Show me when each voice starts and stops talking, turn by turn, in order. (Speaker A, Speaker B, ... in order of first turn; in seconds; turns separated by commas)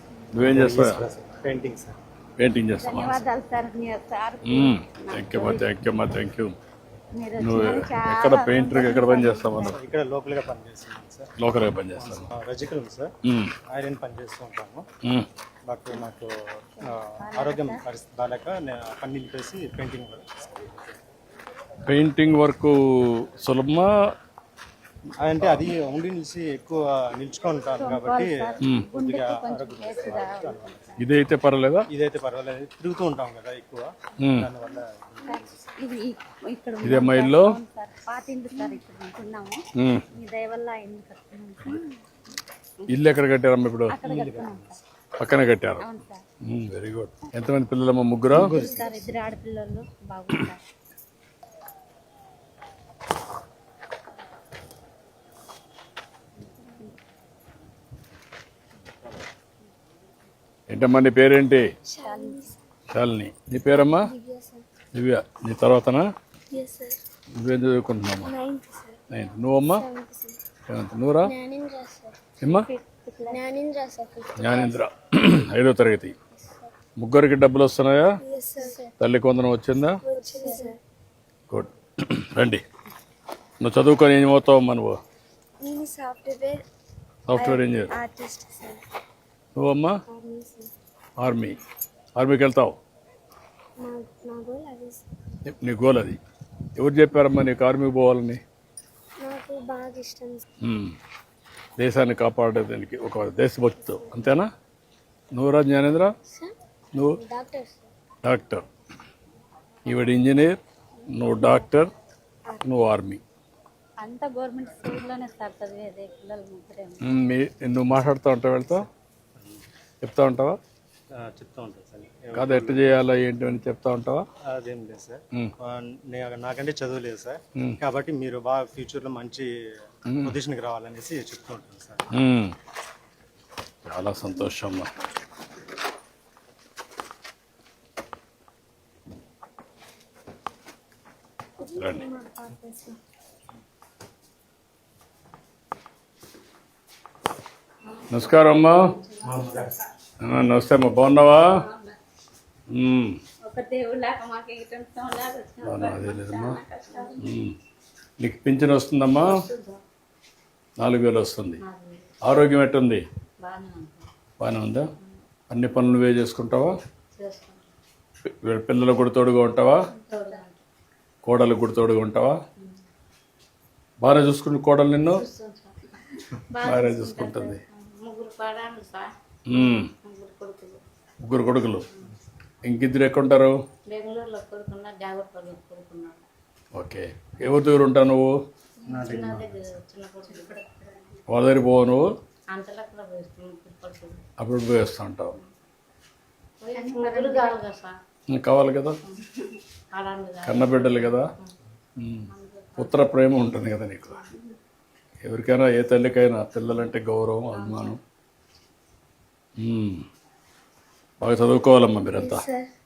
Speaker A: 0.3-1.0, Speaker B: 0.5-2.0, Speaker A: 2.4-3.2, Speaker C: 2.8-5.7, Speaker A: 4.4-6.5, Speaker C: 7.1-9.7, Speaker A: 7.4-9.8, Speaker B: 9.6-11.3, Speaker A: 11.4-12.3, Speaker B: 11.9-13.1, Speaker A: 13.2-13.5, Speaker B: 13.7-14.9, Speaker B: 15.7-20.9, Speaker C: 16.8-17.8, Speaker A: 21.9-23.9, Speaker B: 25.2-31.0, Speaker A: 25.4-25.7, Speaker C: 27.8-31.0, Speaker A: 28.6-28.9, Speaker A: 31.0-31.9, Speaker B: 31.9-35.7, Speaker A: 34.2-34.5, Speaker C: 35.2-42.0, Speaker A: 36.8-37.6, Speaker A: 39.8-40.0, Speaker A: 42.9-44.0, Speaker C: 43.9-44.7, Speaker B: 44.0-44.7, Speaker A: 45.2-45.9, Speaker C: 45.8-46.2, Speaker A: 46.5-48.5, Speaker B: 48.3-49.1, Speaker C: 48.3-50.6, Speaker A: 60.7-61.7, Speaker D: 61.9-62.6, Speaker C: 62.0-62.5, Speaker A: 62.9-64.1, Speaker D: 63.9-64.6, Speaker A: 64.9-66.0, Speaker D: 66.5-67.0, Speaker A: 67.4-68.3, Speaker D: 68.2-69.0, Speaker A: 69.1-69.8, Speaker D: 69.7-70.4, Speaker A: 70.7-71.3, Speaker D: 71.2-72.2, Speaker A: 72.4-72.7, Speaker C: 72.7-73.4, Speaker D: 73.3-74.8, Speaker A: 74.4-76.1, Speaker D: 76.4-76.7, Speaker A: 77.0-78.2, Speaker D: 78.2-78.9, Speaker A: 79.0-80.0, Speaker D: 80.0-80.8, Speaker C: 80.2-80.6, Speaker A: 81.5-82.6, Speaker A: 83.6-85.0, Speaker D: 85.6-86.6, Speaker A: 87.3-87.9, Speaker D: 87.3-88.8, Speaker A: 89.5-90.0, Speaker D: 90.1-90.7, Speaker A: 91.2-91.6, Speaker A: 92.2-92.8, Speaker D: 93.8-95.0, Speaker A: 95.5-96.2, Speaker A: 96.8-98.4, Speaker D: 99.2-100.4, Speaker A: 100.6-100.9, Speaker A: 101.8-104.5, Speaker D: 103.8-104.3, Speaker A: 105.3-106.1, Speaker D: 106.3-106.5, Speaker A: 106.9-107.2, Speaker D: 107.2-107.9, Speaker A: 108.2-108.7, Speaker A: 109.8-111.9, Speaker D: 112.5-112.7, Speaker A: 112.6-113.2, Speaker C: 114.0-117.0, Speaker A: 117.0-118.9, Speaker A: 120.0-120.6, Speaker B: 121.2-122.9, Speaker A: 122.3-124.2, Speaker B: 124.5-129.5, Speaker A: 130.1-130.4, Speaker B: 130.2-132.1, Speaker A: 132.1-132.5, Speaker A: 133.8-134.9, Speaker D: 141.6-143.0, Speaker A: 141.8-142.1, Speaker C: 147.8-149.9, Speaker A: 148.1-148.9, Speaker B: 149.2-149.9, Speaker A: 150.2-151.6, Speaker C: 151.4-152.0, Speaker A: 152.7-153.2, Speaker C: 153.4-157.2, Speaker A: 155.6-156.6, Speaker A: 157.2-157.5, Speaker A: 158.2-159.4, Speaker C: 159.2-159.8, Speaker A: 160.8-161.6, Speaker C: 161.6-162.1, Speaker A: 162.2-163.0, Speaker C: 163.4-164.1, Speaker A: 164.4-164.9, Speaker A: 165.5-166.8, Speaker C: 167.2-167.6, Speaker A: 168.4-169.9, Speaker C: 169.9-170.6, Speaker A: 171.2-172.4, Speaker A: 174.0-175.2, Speaker C: 175.1-180.8, Speaker A: 176.6-177.6, Speaker A: 179.5-179.9, Speaker A: 181.2-181.8, Speaker A: 182.6-183.5, Speaker C: 183.9-186.2, Speaker A: 186.7-188.3, Speaker C: 188.8-191.2, Speaker B: 188.8-189.5, Speaker A: 191.3-192.1, Speaker C: 192.5-194.2, Speaker A: 194.4-195.3, Speaker C: 196.6-198.0, Speaker D: 196.7-197.5, Speaker A: 198.3-199.0, Speaker C: 199.1-201.5, Speaker A: 200.4-201.3, Speaker A: 202.0-204.2, Speaker C: 202.3-203.0, Speaker C: 204.2-204.5, Speaker A: 205.2-208.0, Speaker C: 207.5-207.9, Speaker A: 209.6-210.0, Speaker A: 211.2-212.4, Speaker D: 212.1-212.7